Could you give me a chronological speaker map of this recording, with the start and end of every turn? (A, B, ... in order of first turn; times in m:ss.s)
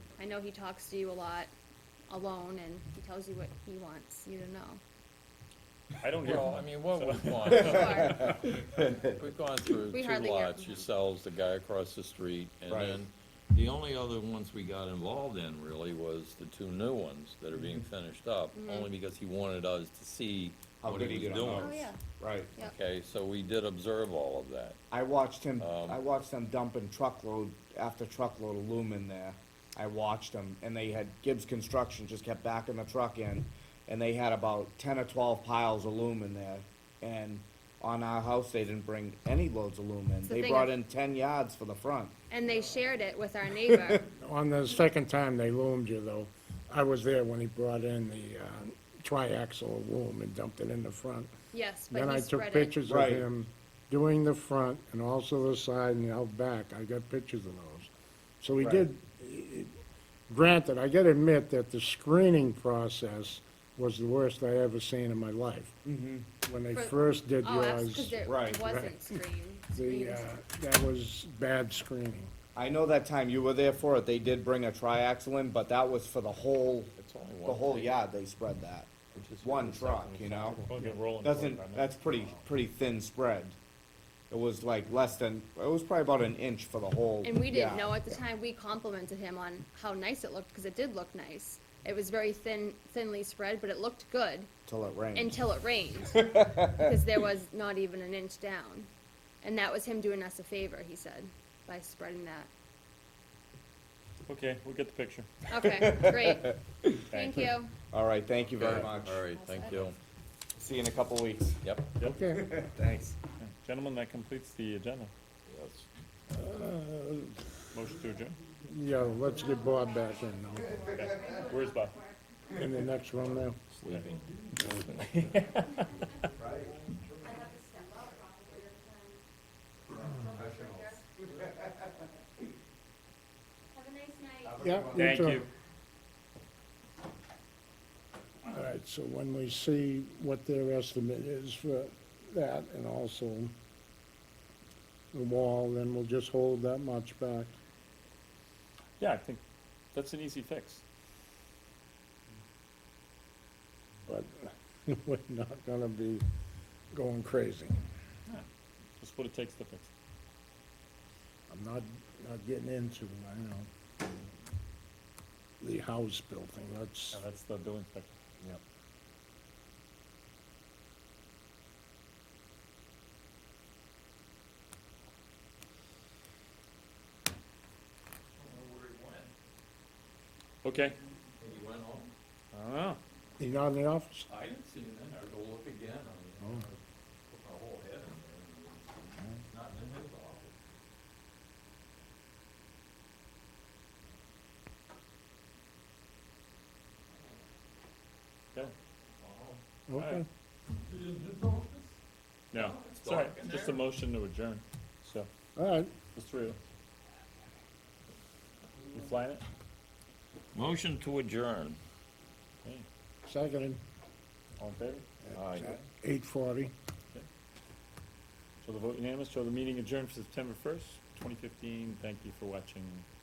0:00.2-0:01.5 A
0:02.1-0:04.8 A
0:06.0-0:08.1 B
0:06.2-0:21.9 C
0:07.5-0:09.0 D
0:07.6-0:08.2 A
0:09.8-0:10.8 A
0:12.7-0:13.0 D
0:18.5-0:18.9 A
0:20.8-0:22.5 D
0:21.5-0:22.0 A
0:22.6-0:24.8 C
0:24.9-0:42.1 D
0:25.6-0:26.0 C
0:40.2-0:40.7 A
0:42.3-0:44.1 A
0:43.6-0:44.0 D
0:44.1-0:51.3 E
0:51.5-0:52.8 A
0:51.9-0:57.9 E
0:52.8-0:53.3 D
0:58.4-0:59.7 E
0:58.6-0:58.8 D
1:00.3-1:05.8 E
1:05.8-1:06.3 D
1:06.4-1:09.1 E
1:06.7-1:10.3 A
1:08.2-1:08.6 D
1:09.7-1:12.3 E
1:12.5-1:16.9 D
1:17.0-1:18.0 C
1:17.4-1:20.6 D
1:19.1-1:20.7 C
1:20.3-1:22.4 B
1:21.2-1:23.6 D
1:24.3-1:28.1 D
1:27.2-1:34.5 A
1:34.7-1:35.5 D
1:35.1-1:36.2 A
1:36.0-1:37.2 D
1:36.8-1:38.9 A
1:39.4-1:42.5 A
1:44.3-1:45.3 B
1:45.5-1:46.6 A
1:45.6-1:47.1 D
1:47.1-1:47.5 B
1:47.1-1:47.7 A
1:47.9-1:49.2 D
1:48.5-1:50.0 C
1:49.3-1:49.9 A
1:50.6-1:51.7 D
1:52.0-1:52.5 E
1:52.3-1:53.2 D
1:53.4-1:55.1 B
1:55.4-1:55.9 C
1:56.3-1:57.5 E
1:57.7-1:58.4 B
1:58.7-2:00.8 E
1:59.3-2:02.2 A
2:00.9-2:02.0 B
2:02.5-2:03.6 E
2:03.7-2:05.3 C
2:03.8-2:04.1 B
2:05.0-2:05.8 B
2:06.4-2:06.7 D
2:07.2-2:09.2 A
2:09.9-2:11.7 D
2:09.9-2:11.0 A
2:13.7-2:14.6 A
2:14.4-2:15.4 D
2:14.6-2:15.4 E
2:14.9-2:15.5 B
2:18.4-2:23.5 E
2:25.1-2:27.5 E
2:29.0-2:29.4 B
2:29.9-2:30.8 B
2:34.0-2:36.2 E
2:36.9-2:37.8 E
2:39.0-2:39.9 B
2:41.5-2:43.7 E
2:45.6-2:47.2 E
2:47.1-2:48.1 B
2:58.4-2:59.3 C
3:00.6-3:01.0 B
3:01.4-3:02.1 C
3:02.5-3:03.0 B
3:03.4-3:04.3 E
3:04.3-3:10.6 C
3:19.1-3:19.6 C
3:19.9-3:20.3 E
3:19.9-3:20.2 B
3:20.8-3:21.9 C
3:22.5-3:25.3 B
3:22.5-3:23.8 C
3:25.6-3:25.9 E
3:26.1-3:26.6 B
3:28.9-3:29.4 B
3:30.5-3:31.8 C
3:33.2-3:33.8 E
3:34.6-3:35.0 B
3:35.3-3:35.8 D
3:35.3-3:35.8 C
3:36.0-3:36.7 E
3:38.6-3:43.0 B